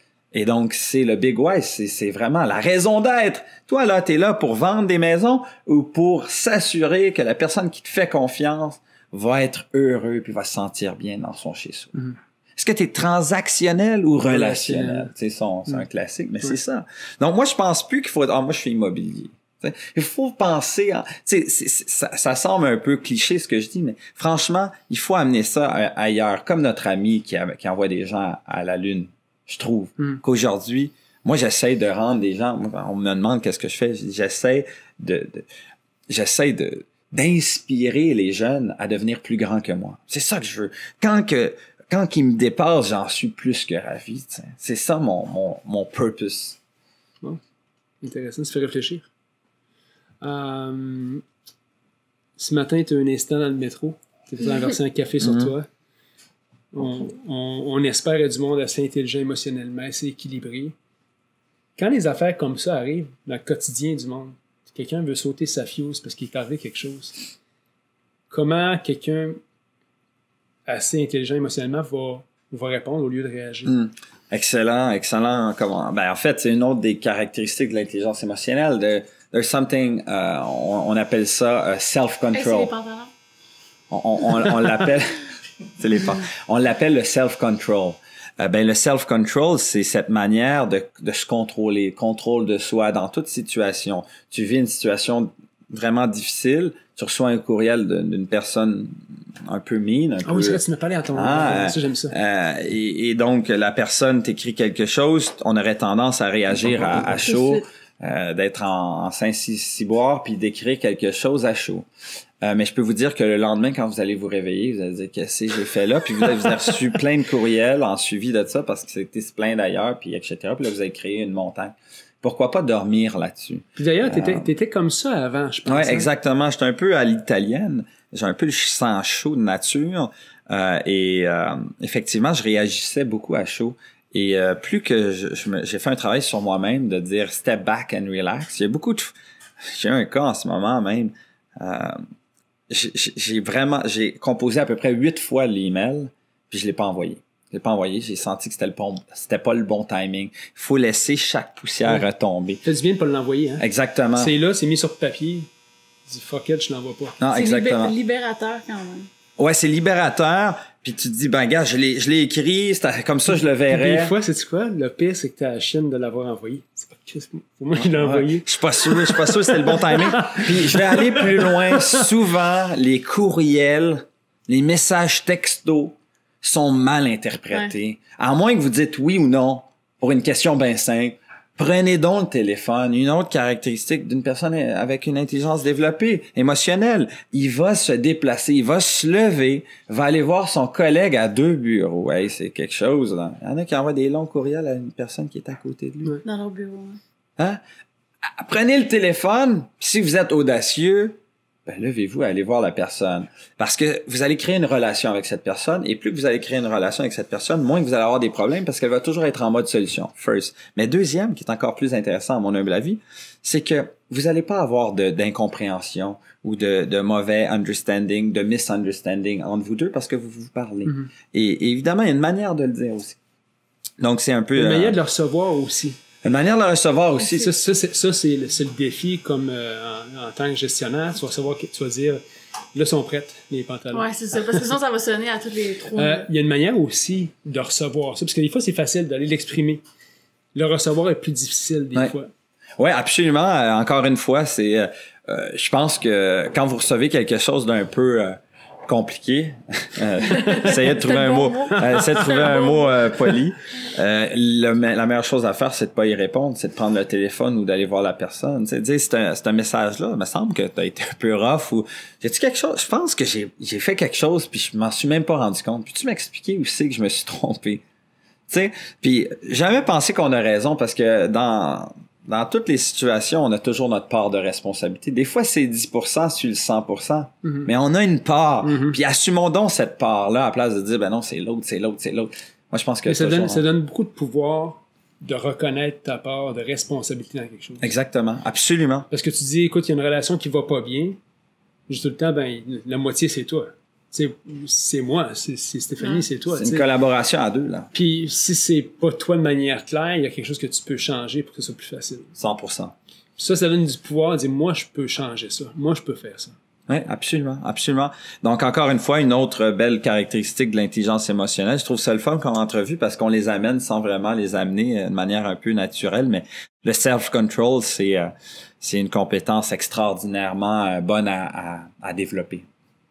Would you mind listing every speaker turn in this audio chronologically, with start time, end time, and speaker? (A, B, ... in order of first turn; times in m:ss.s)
0:00.3-0:35.4 A
0:14.3-0:15.1 B
0:36.1-0:46.6 A
0:48.0-0:49.1 B
0:50.2-0:51.2 B
0:52.4-0:55.7 B
0:55.2-0:55.5 A
0:56.7-1:00.7 B
1:01.8-1:07.2 B
1:08.3-1:09.4 B
1:10.7-1:13.7 B
1:13.6-1:22.7 A
1:22.3-1:23.1 C
1:23.9-1:25.2 A
1:25.8-1:38.9 A
1:39.5-1:40.6 A
1:40.2-1:42.1 B
1:41.1-1:51.9 A
1:47.1-1:47.6 C
1:52.4-2:04.5 A
2:03.8-2:06.1 B
2:05.7-2:22.0 A
2:22.7-2:32.6 A
2:32.6-2:35.5 B
2:33.6-2:34.3 A
2:36.1-2:37.2 B
2:37.2-2:37.9 A
2:37.3-2:39.1 C
2:39.4-2:44.1 A
2:43.7-2:52.1 B
2:47.7-3:16.2 A
3:16.2-3:17.0 C
3:18.2-3:43.2 A
3:44.0-3:45.0 A
3:44.6-3:46.0 B
3:46.2-3:47.5 A
3:47.3-3:52.2 B
3:52.7-3:54.6 B
3:53.9-3:56.3 C
3:56.0-3:59.8 B
4:00.5-4:02.3 B
4:02.8-4:27.8 A
4:10.4-4:13.1 C
4:11.9-4:12.5 B
4:28.5-4:43.6 A
4:37.4-4:37.7 B
4:38.6-4:39.0 B
4:43.0-4:47.9 B
4:47.8-4:49.1 A
4:49.1-4:51.2 B
4:51.9-4:56.8 B
4:56.5-4:57.9 A
4:57.9-5:02.3 B
5:02.4-5:02.9 A
5:03.4-5:06.5 B
5:06.9-5:22.6 A